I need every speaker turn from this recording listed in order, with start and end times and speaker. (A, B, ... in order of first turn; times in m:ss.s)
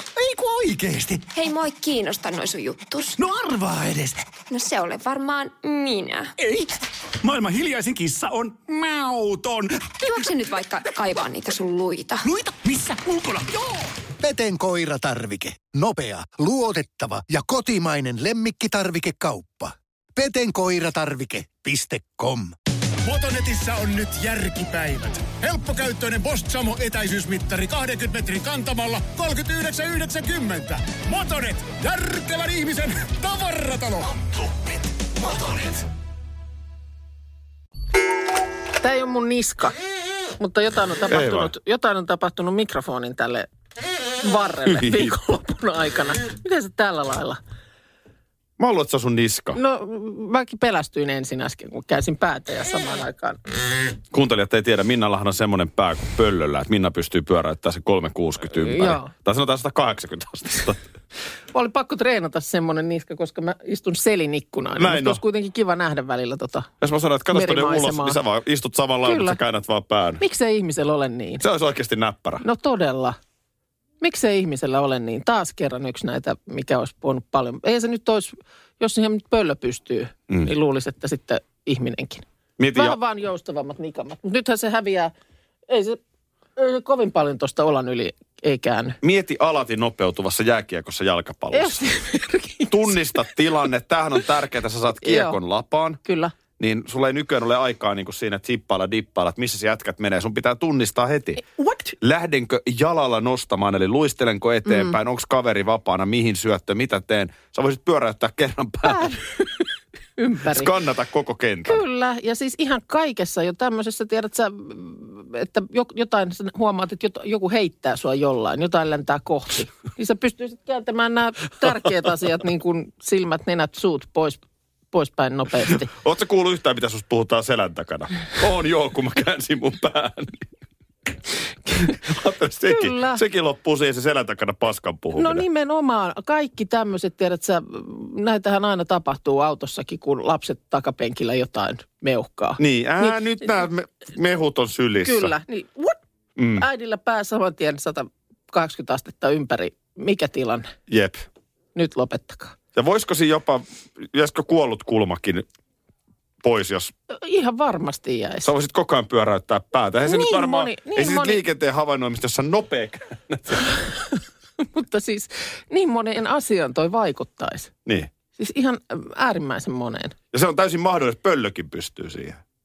0:00.2-0:01.3 A
0:01.4-0:03.0 B
0:03.2-0:04.2 A
0:04.5-0:06.3 B
0:06.4-0:10.3 A
0:10.3-0:12.2 B
0:12.2-0:13.8 A
0:14.2-0:22.5 C
0:23.0-0:34.3 D
0:38.8-0:39.8 E
0:40.4-0:43.5 E
0:41.1-0:41.5 F
0:44.2-0:47.4 E
0:44.7-0:45.1 F
0:48.6-0:49.6 F
0:49.5-0:53.4 E
0:54.1-1:00.9 F
0:58.6-0:59.1 E
1:01.5-1:06.7 E
1:04.8-1:05.2 F
1:06.8-1:10.2 F
1:07.3-1:08.2 E
1:09.0-1:09.4 E
1:10.2-1:11.4 E
1:11.4-1:12.4 F
1:12.4-1:13.2 E
1:14.0-1:25.1 E
1:22.6-1:23.0 F
1:25.7-1:26.0 E
1:26.6-1:29.0 E
1:29.0-1:31.8 F
1:31.5-1:33.3 E
1:32.7-1:36.0 F
1:35.0-1:35.4 E
1:36.0-1:36.3 E
1:36.6-1:41.4 F
1:41.6-1:41.9 E
1:42.0-1:49.2 F
1:44.7-1:44.9 E
1:48.8-1:49.5 E
1:50.2-1:50.7 E
1:50.5-1:51.8 F
1:51.6-2:04.4 E
2:04.9-2:05.9 E
2:05.7-2:10.5 F
2:11.8-2:15.4 F
2:12.7-2:13.2 E
2:15.2-2:23.2 E
2:22.6-2:25.3 F
2:25.0-2:26.0 E
2:26.4-2:26.6 F
2:26.6-2:30.7 E
2:30.9-2:31.2 F
2:31.7-2:32.6 E
2:32.7-2:35.4 F
2:36.4-2:36.9 F
2:37.1-2:38.5 E
2:38.4-2:43.7 F
2:40.0-2:41.4 E
2:44.6-2:47.7 E
2:47.8-2:48.1 F
2:48.4-2:50.1 E
2:50.3-2:52.4 F